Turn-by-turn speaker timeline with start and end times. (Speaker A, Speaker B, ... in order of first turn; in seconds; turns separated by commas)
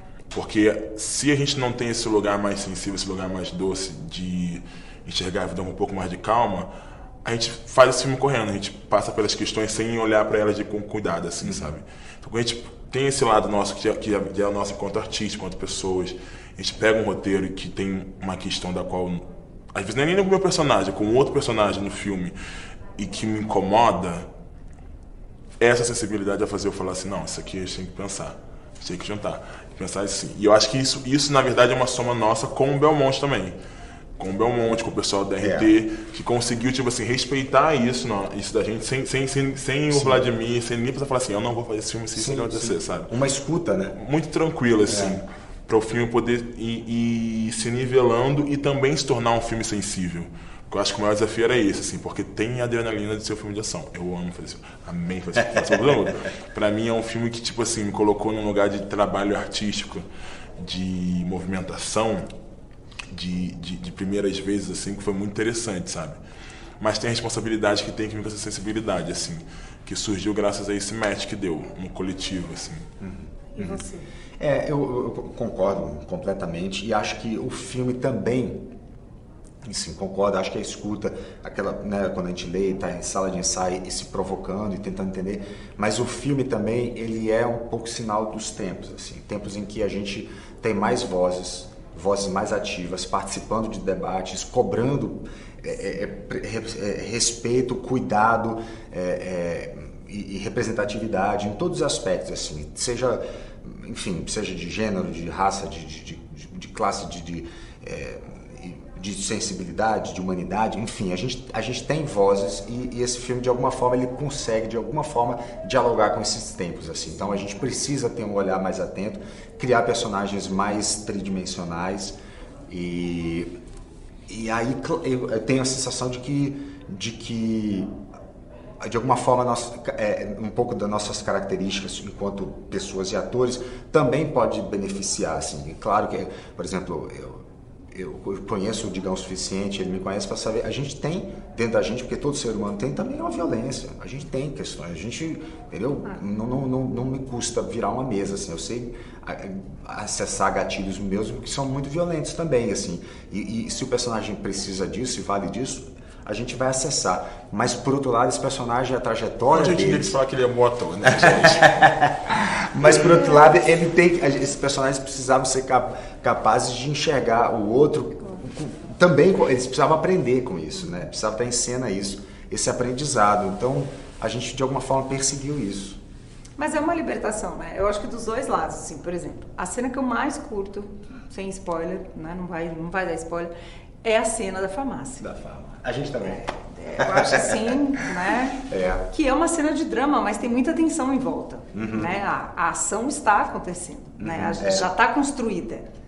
Speaker A: 0.3-6.7, Speaker A: 7.2-22.4, Speaker B: 11.4-11.8, Speaker A: 23.0-24.3, Speaker A: 25.6-33.6, Speaker A: 34.2-43.1, Speaker B: 35.4-35.7, Speaker B: 39.9-40.3, Speaker B: 42.1-44.0, Speaker A: 43.9-60.0, Speaker B: 44.9-45.2, Speaker A: 60.6-62.3, Speaker A: 63.1-66.2, Speaker A: 66.8-72.9, Speaker B: 73.0-73.8, Speaker C: 73.5-74.1, Speaker B: 74.4-78.7, Speaker B: 79.6-122.2, Speaker B: 122.7-123.6, Speaker B: 124.3-128.0, Speaker B: 128.8-160.2, Speaker A: 159.5-161.8, Speaker B: 161.1-162.1, Speaker B: 162.7-176.0, Speaker C: 176.6-183.5, Speaker C: 184.0-185.3, Speaker B: 185.2-188.1, Speaker C: 186.2-195.9, Speaker B: 188.7-189.1, Speaker B: 191.7-192.3, Speaker B: 194.2-194.9